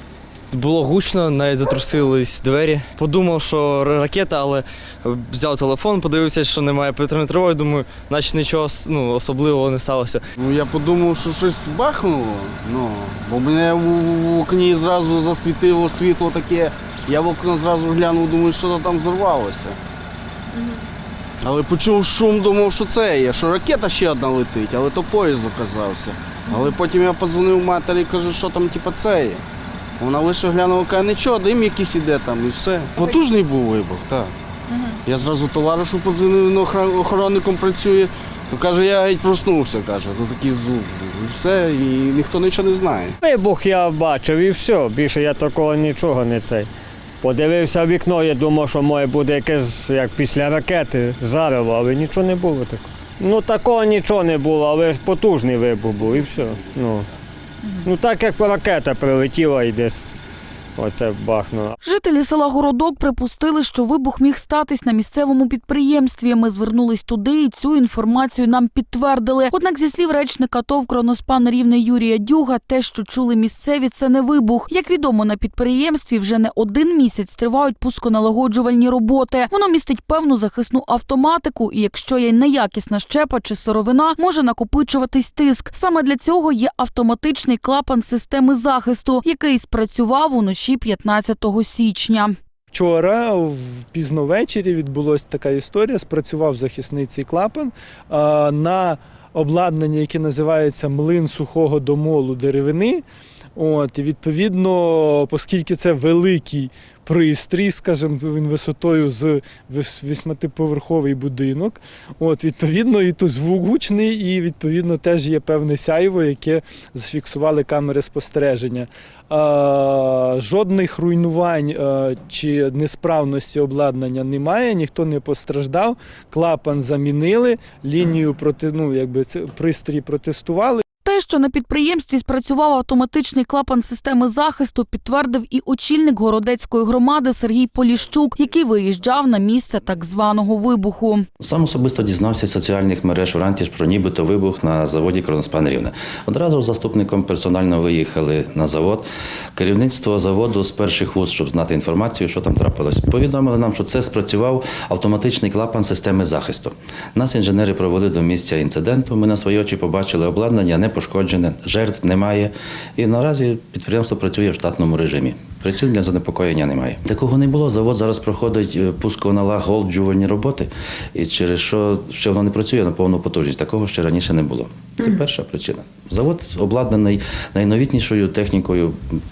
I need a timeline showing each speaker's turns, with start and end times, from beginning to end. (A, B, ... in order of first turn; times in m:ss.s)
0:00.5-0:10.2 A
0:10.4-0:19.8 B
0:21.4-0:29.4 B
0:30.0-0:34.3 B
0:34.9-0:43.2 B
0:43.2-0:46.7 C
0:47.2-0:57.1 C
0:57.8-1:00.2 C
1:00.8-1:01.7 C
1:01.8-1:32.4 D
1:32.7-1:43.0 E
1:43.6-2:10.8 E
2:11.0-2:21.3 D
2:21.4-2:59.0 F